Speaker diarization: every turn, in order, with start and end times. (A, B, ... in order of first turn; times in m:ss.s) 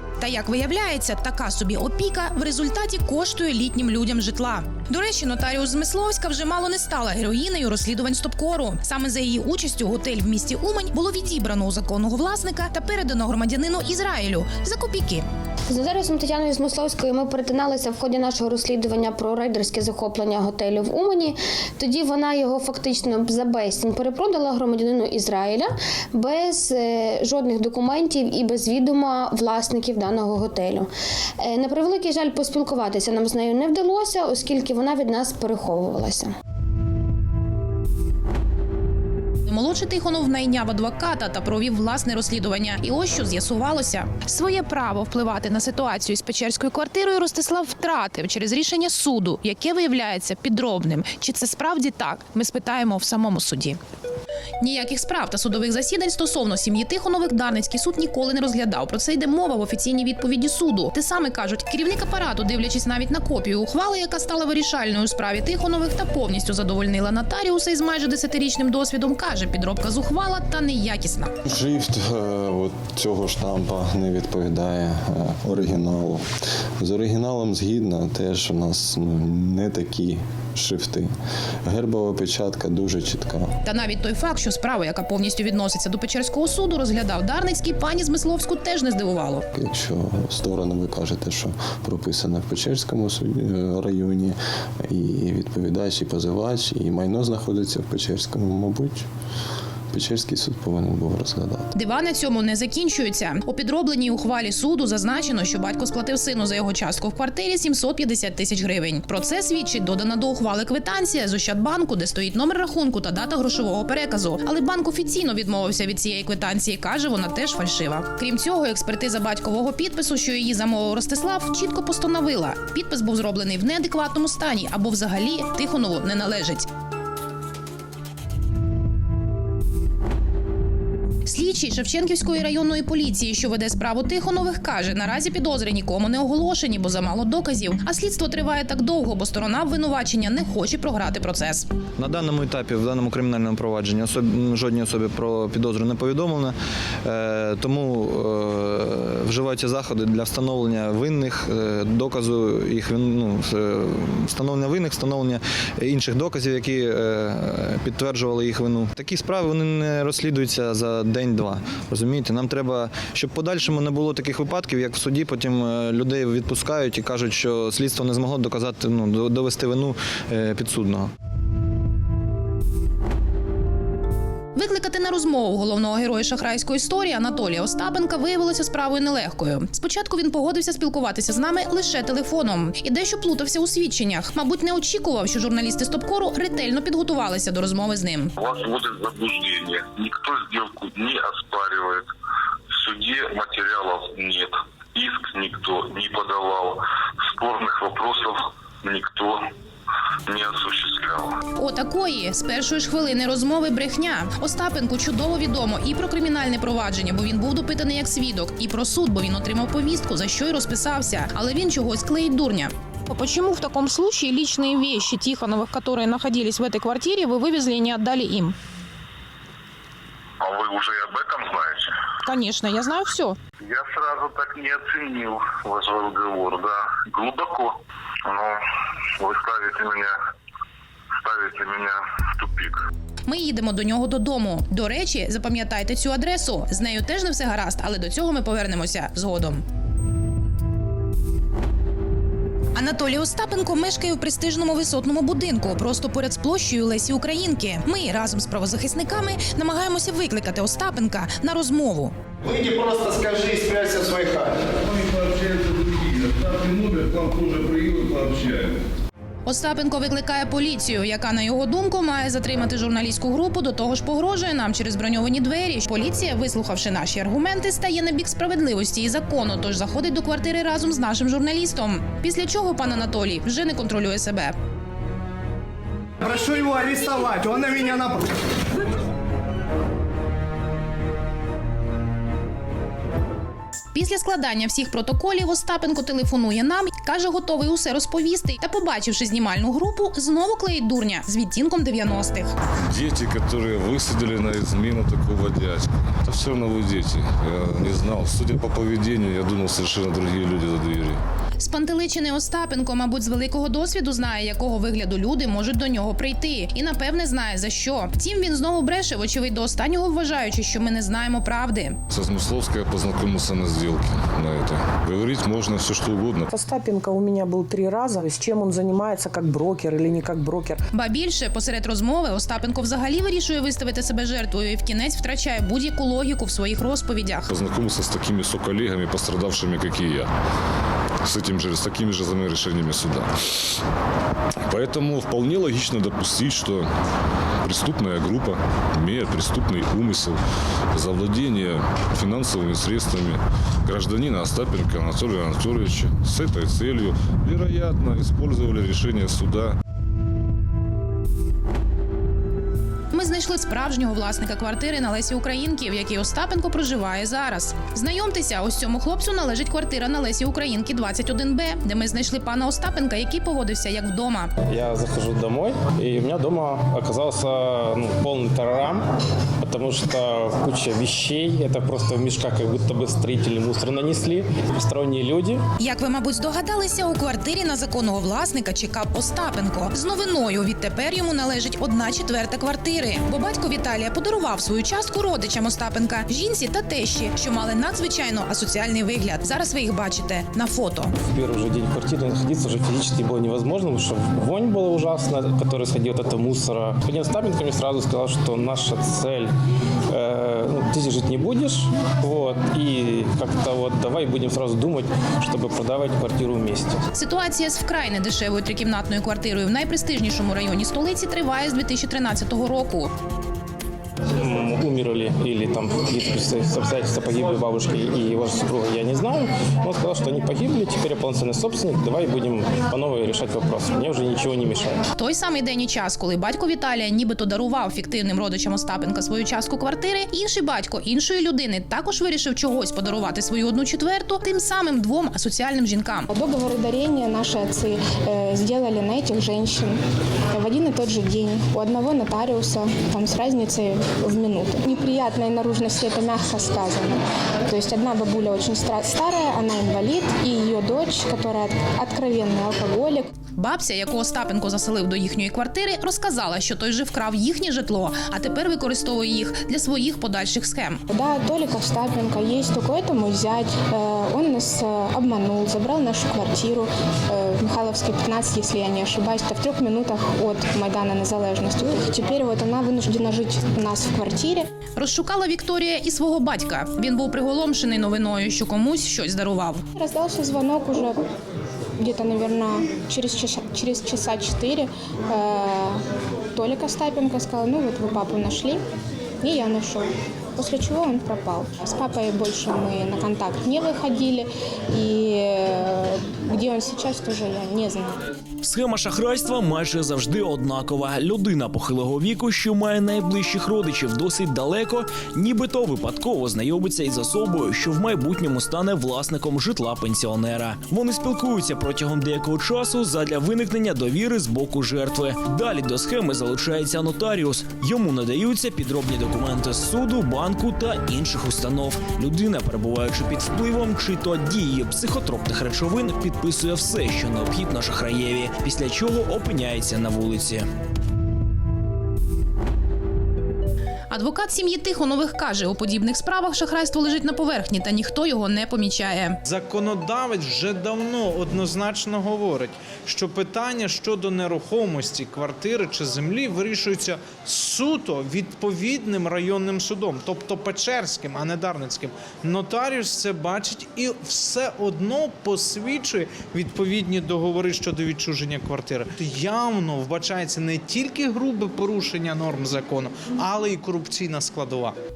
0:00.2-0:15.2 A
0:15.7-0:30.9 B
0:31.4-0:36.3 B
0:39.5-0:53.8 A
0:54.6-1:11.3 A
1:11.4-1:16.2 C
1:16.8-1:21.1 C
1:21.6-1:23.5 C
1:23.6-1:29.4 A
1:29.5-1:39.0 C
1:39.9-1:41.7 C
1:41.7-2:06.7 A
2:11.2-2:21.7 A
2:22.0-2:51.1 D
2:54.5-3:08.3 A
3:08.4-3:12.0 E
3:12.8-3:16.7 E
3:17.4-3:19.4 E
3:20.3-3:21.2 E
3:21.6-3:38.6 A
3:40.4-3:41.8 E
3:42.2-3:43.4 A
3:43.7-3:47.7 E
3:49.2-3:50.0 E
3:51.6-3:51.8 E
3:53.3-3:59.6 A
4:02.7-4:12.1 A
4:13.0-4:14.4 F
4:19.4-4:34.5 A
4:36.2-4:38.2 F
4:43.9-4:52.5 A
4:52.9-5:01.2 G
5:01.6-5:12.0 A
5:12.1-5:16.5 G
5:16.5-5:20.8 H
5:20.9-5:27.5 A
5:27.5-5:30.3 G
5:31.2-5:33.3 G
5:34.6-5:36.9 G
5:37.6-5:40.4 G
5:40.9-5:49.7 G
5:53.1-6:04.5 A
6:04.7-6:09.0 I
6:09.6-6:15.6 I
6:15.8-6:31.1 A
6:31.2-6:39.5 I
6:40.1-6:47.0 I
6:47.1-6:53.1 A
6:54.4-7:05.0 I
7:05.1-7:16.3 A
7:16.3-7:20.0 J
7:20.5-7:33.3 J
7:33.5-7:41.0 A
7:41.1-7:54.7 J
7:55.0-7:59.8 A
7:59.9-8:01.2 J
8:02.0-8:06.0 J
8:06.5-8:08.8 J
8:09.4-8:18.2 J
8:18.6-8:50.7 K
8:54.1-8:59.4 A
8:59.4-9:25.0 L